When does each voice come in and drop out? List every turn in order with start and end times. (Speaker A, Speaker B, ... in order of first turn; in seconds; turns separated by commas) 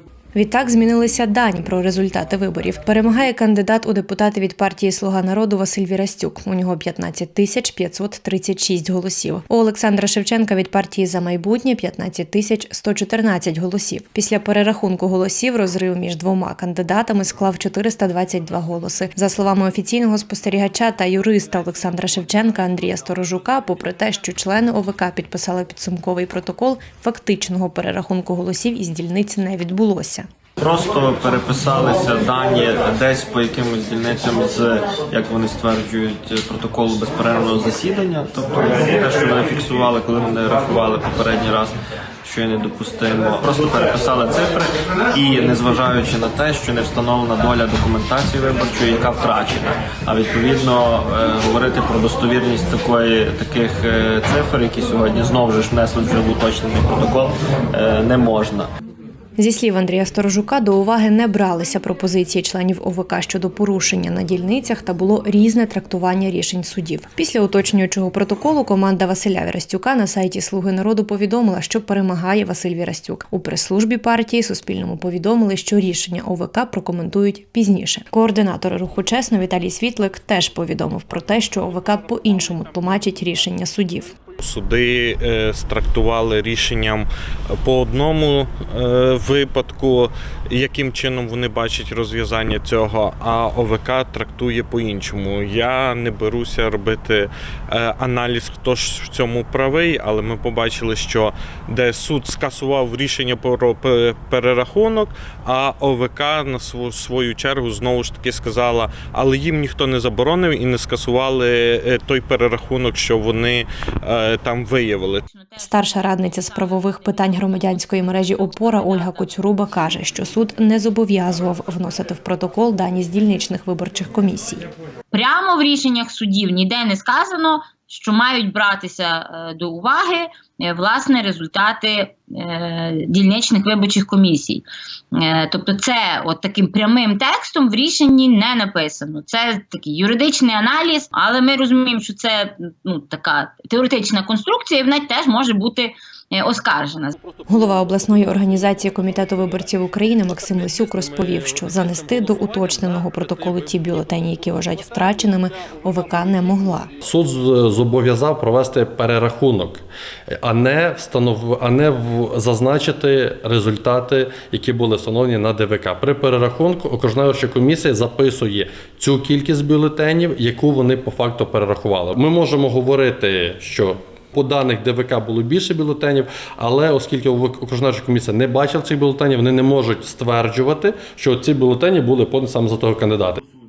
Speaker A: 0.3-30.3, Speaker B: 30.6-58.7, Speaker A: 59.4-84.1, Speaker C: 84.4-87.1, Speaker C: 87.6-115.2, Speaker D: 115.3-119.3, Speaker A: 115.6-124.6, Speaker D: 125.1-147.2, Speaker A: 147.5-156.9, Speaker E: 157.0-183.4